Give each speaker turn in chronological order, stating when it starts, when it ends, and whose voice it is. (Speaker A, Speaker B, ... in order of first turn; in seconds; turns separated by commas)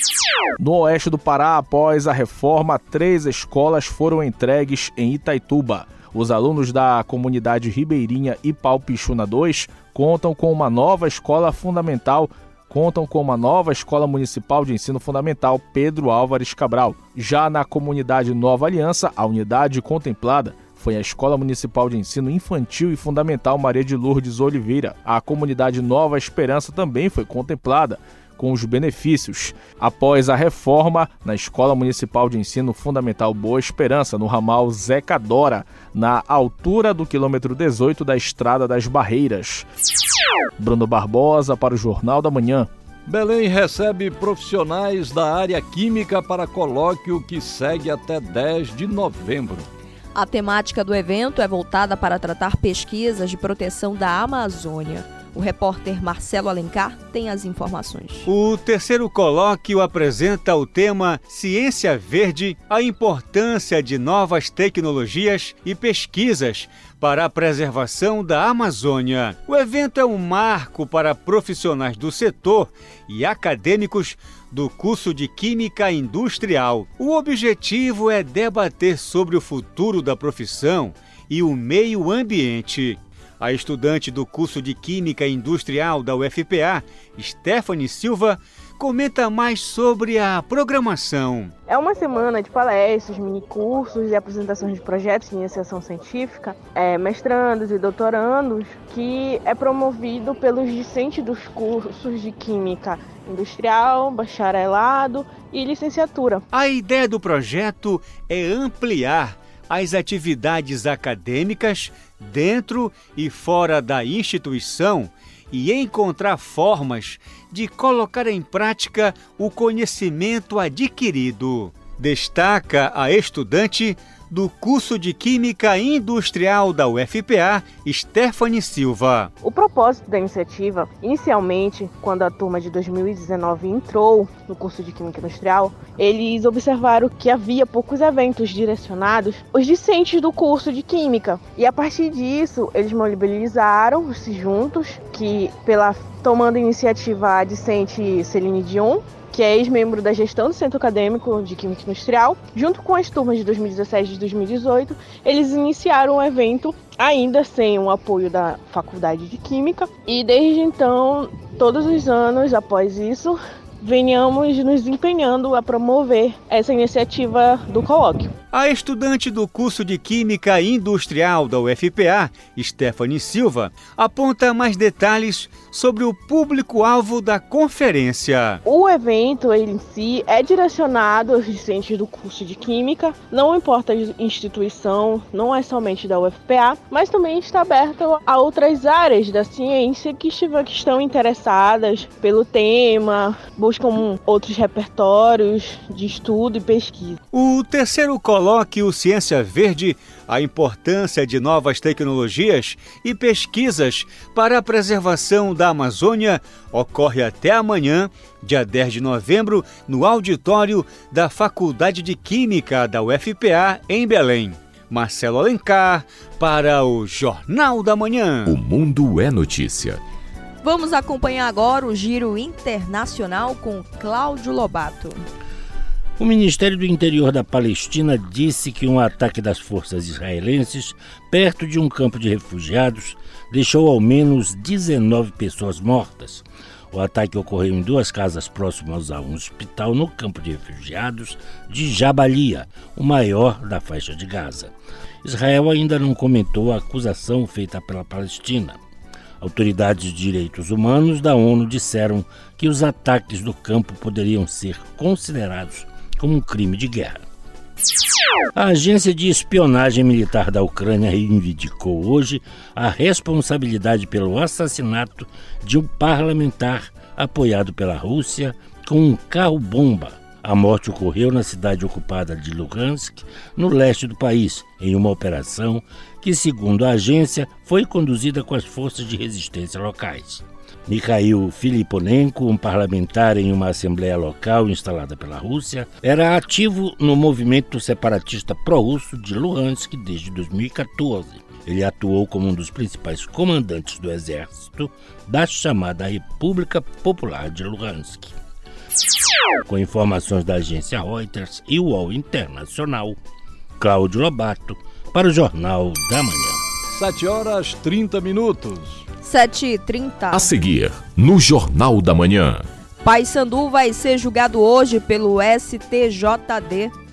Speaker A: 0.6-39.7, Speaker A: 40.6-42.7, Speaker B: 43.1-49.7, Speaker C: 50.1-58.3, Speaker D: 58.3-91.5, Speaker E: 91.7-106.4, Speaker D: 106.5-129.3, Speaker E: 129.4-168.3, Speaker D: 168.5-178.6, Speaker E: 178.7-197.2, Speaker D: 197.3-218.6, Speaker F: 218.5-220.0, Speaker C: 220.6-225.2, Speaker G: 226.2-248.8, Speaker G: 249.4-257.2, Speaker G: 258.6-298.3, Speaker G: 299.6-303.2, Speaker G: 303.8-306.6, Speaker B: 306.9-309.0, Speaker C: 309.2-310.5, Speaker F: 310.3-312.7, Speaker C: 313.0-316.9